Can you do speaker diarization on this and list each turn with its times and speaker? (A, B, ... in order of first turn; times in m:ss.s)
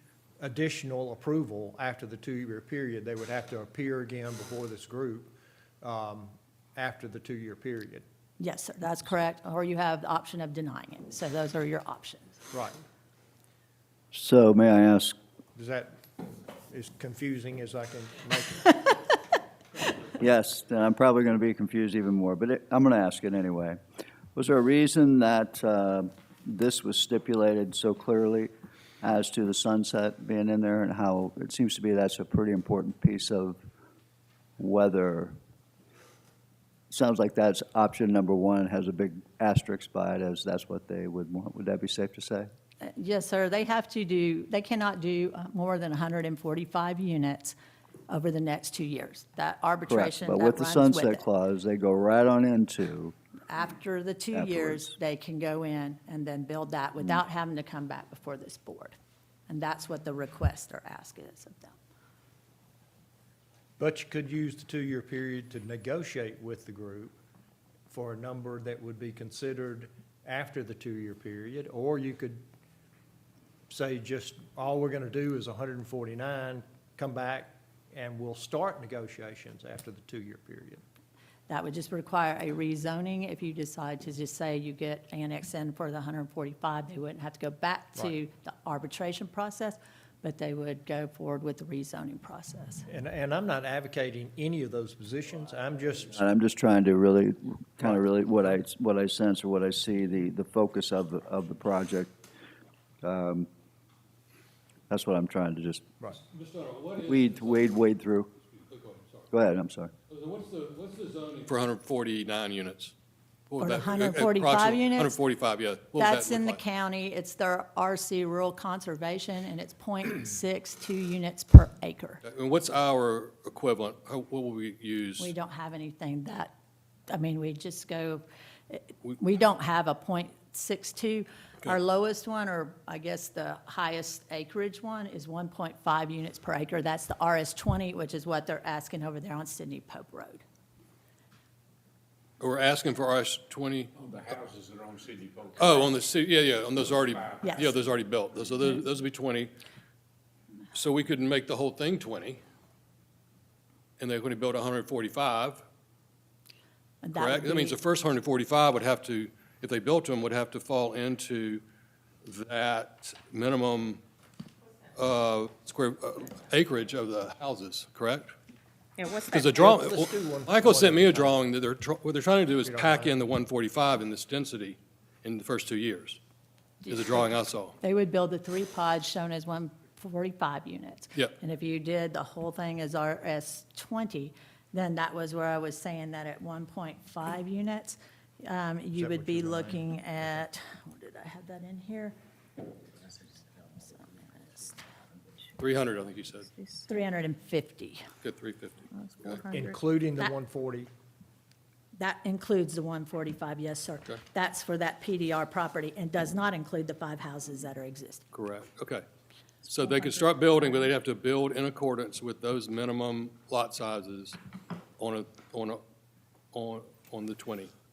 0:00.4-0:08.0 A
0:08.4-0:12.4 B
0:12.5-0:12.8 A
0:14.1-0:15.2 C
0:15.5-0:16.0 A
0:16.7-0:19.0 A
0:20.2-0:23.8 C
0:24.3-0:33.6 C
0:34.6-0:35.3 C
0:36.9-0:42.5 C
0:42.8-0:47.5 B
0:48.1-0:51.2 B
0:49.9-0:53.1 C
0:53.5-0:58.9 B
0:54.3-0:54.9 C
0:59.5-1:01.8 B
1:03.8-1:07.1 A
1:07.9-1:12.4 A
1:13.7-1:20.8 A
1:21.5-1:32.8 B
1:32.9-1:36.2 A
1:36.2-1:42.1 C
1:43.0-1:43.5 C
1:44.9-1:45.8 C
1:46.3-1:49.3 D
1:47.0-1:48.3 C
1:49.3-1:49.9 C
1:50.1-1:52.9 D
1:53.5-1:56.6 D
1:53.6-1:55.2 B
1:55.9-2:02.2 B
2:02.2-2:05.3 D
2:05.2-2:06.5 B
2:07.1-2:20.4 B
2:22.4-2:23.9 D
2:24.0-2:26.0 E
2:25.6-2:29.5 D
2:27.0-2:27.7 E
2:27.4-2:27.7 B
2:30.7-2:32.4 D
2:34.0-2:35.6 D
2:37.0-2:37.8 B
2:37.1-2:41.6 D
2:42.2-2:44.0 D
2:44.9-2:48.3 D
2:49.0-2:49.6 F
2:49.3-2:56.2 D
2:49.5-2:51.4 A
2:52.6-2:53.1 A
2:56.8-2:57.8 D
2:56.9-2:57.3 B
2:57.8-3:12.1 B
3:09.0-3:09.9 A
3:13.3-3:14.8 B
3:15.6-3:16.5 D
3:16.5-3:17.0 F
3:16.9-3:18.0 B
3:18.2-3:19.5 D
3:18.9-3:19.8 F
3:19.5-3:20.9 A
3:22.0-3:28.2 B
3:28.3-3:29.0 D
3:29.6-3:34.4 D
3:35.0-3:35.8 D
3:36.5-3:37.7 D